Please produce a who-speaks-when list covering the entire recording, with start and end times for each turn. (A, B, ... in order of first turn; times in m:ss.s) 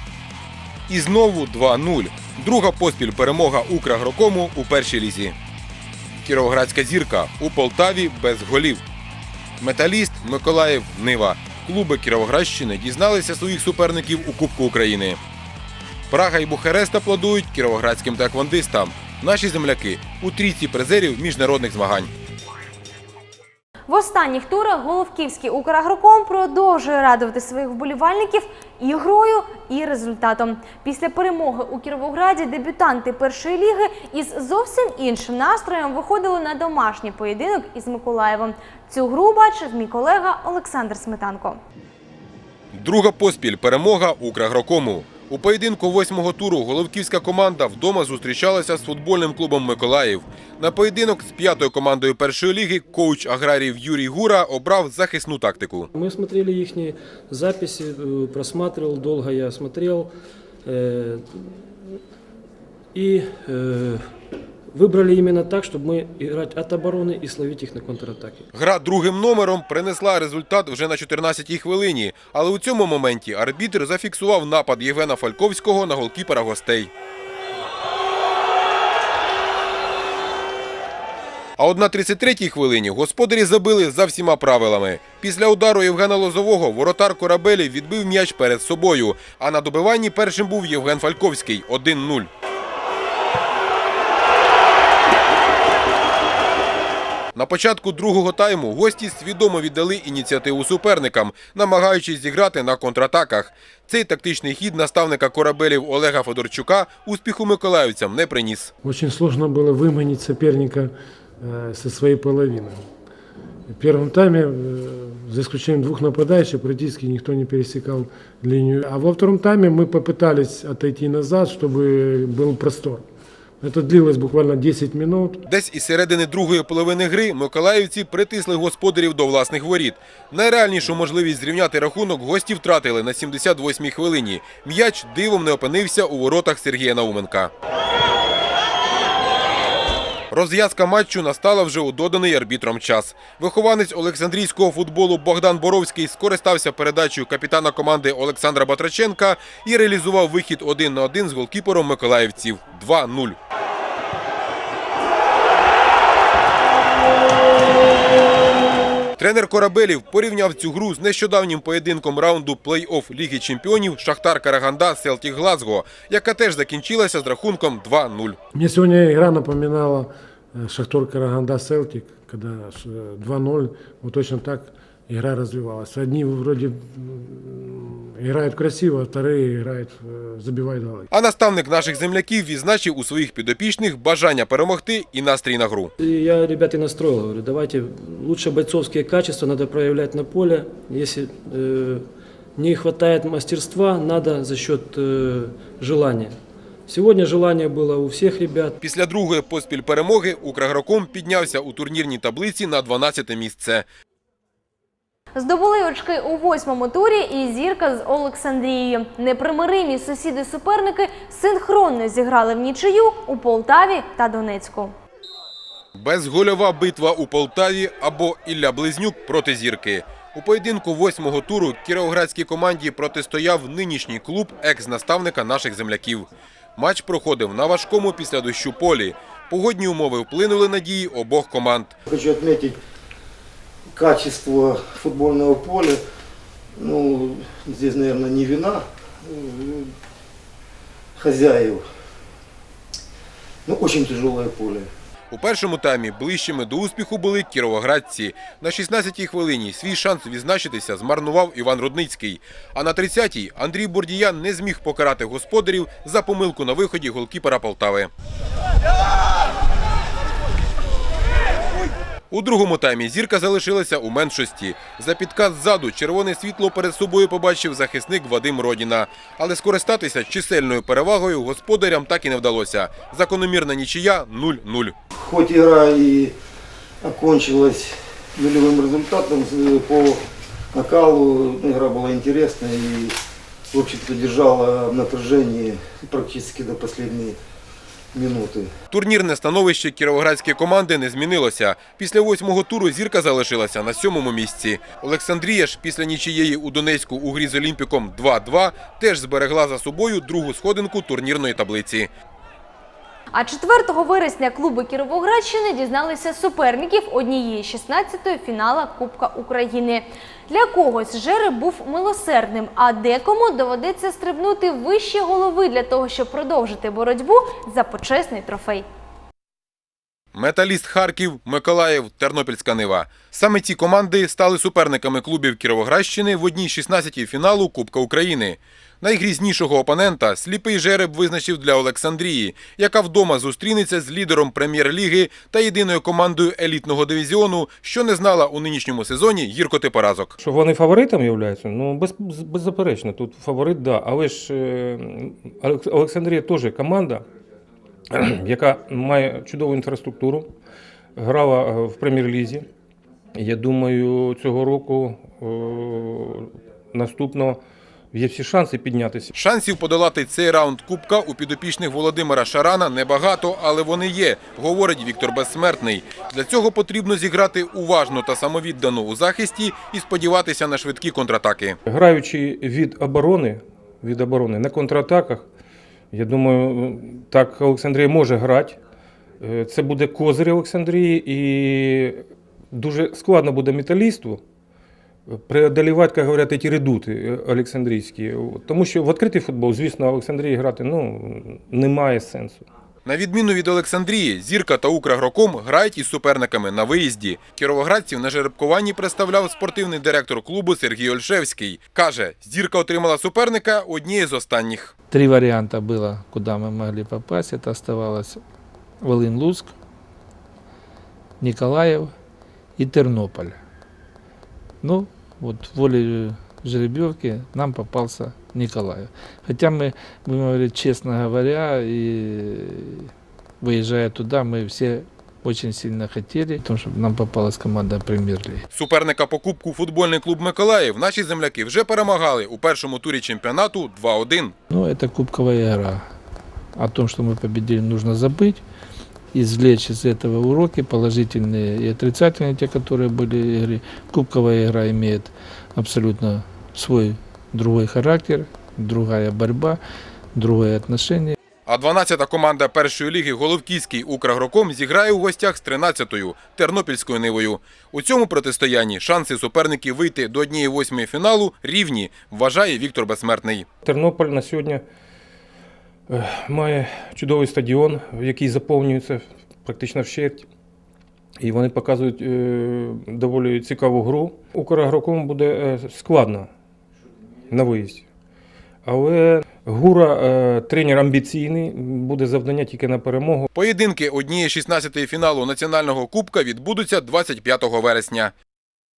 0:00.9-0:05.3 A
0:06.2-0:08.8 A
0:09.6-0:15.2 A
0:16.1-0:22.1 A
0:23.9-0:41.6 B
0:42.7-0:55.9 A
0:55.9-1:00.1 C
1:00.6-1:01.8 C
1:02.9-1:04.1 C
1:04.7-1:08.5 C
1:08.5-1:16.9 A
1:21.6-1:32.3 A
1:37.4-1:48.7 A
1:48.8-1:50.9 D
1:51.6-1:52.8 D
1:53.7-2:03.0 D
2:03.6-2:05.3 D
2:05.6-2:17.5 A
2:20.3-2:33.4 A
2:39.2-2:48.4 A
2:48.5-2:50.0 D
2:50.6-3:01.0 D
3:01.2-3:05.9 A
3:06.0-3:18.8 C
3:18.8-3:23.8 A
3:25.3-3:34.9 B
3:36.0-3:46.2 A
3:46.8-3:51.9 A
3:52.1-3:52.8 E
3:53.9-3:56.0 E
3:56.8-3:59.9 E
4:01.2-4:01.8 E
4:03.6-4:04.9 E
4:05.3-4:18.1 A
4:22.3-4:34.9 A
4:35.1-4:36.3 E
4:37.0-4:40.2 E
4:40.7-4:43.2 E
4:43.7-4:47.4 E
4:48.1-4:48.7 E
4:48.9-5:02.1 A
5:03.3-5:18.8 B
5:20.3-5:40.3 A
5:40.4-5:47.2 F
5:48.1-5:50.5 F
5:51.2-5:52.6 F
5:53.4-5:57.6 F
5:58.1-5:59.3 F
5:59.4-6:11.8 A
6:11.9-6:15.4 F
6:16.1-6:18.8 F
6:19.4-6:24.4 F
6:25.3-6:32.6 F
6:33.1-6:44.9 A
6:45.1-6:48.4 G
6:49.0-6:49.7 G
6:51.4-6:52.1 G
6:52.8-6:53.5 G
6:54.8-7:03.1 G
7:03.6-7:08.6 G
7:08.8-7:14.5 A
7:14.7-7:16.0 G
7:16.8-7:18.6 G
7:19.3-7:29.8 G
7:30.3-7:31.4 G
7:31.7-7:43.6 A
7:43.8-7:44.8 F
7:46.1-7:50.5 F
7:51.4-7:56.5 F
7:57.5-7:58.0 F
7:58.8-8:03.5 F
8:03.6-8:08.3 A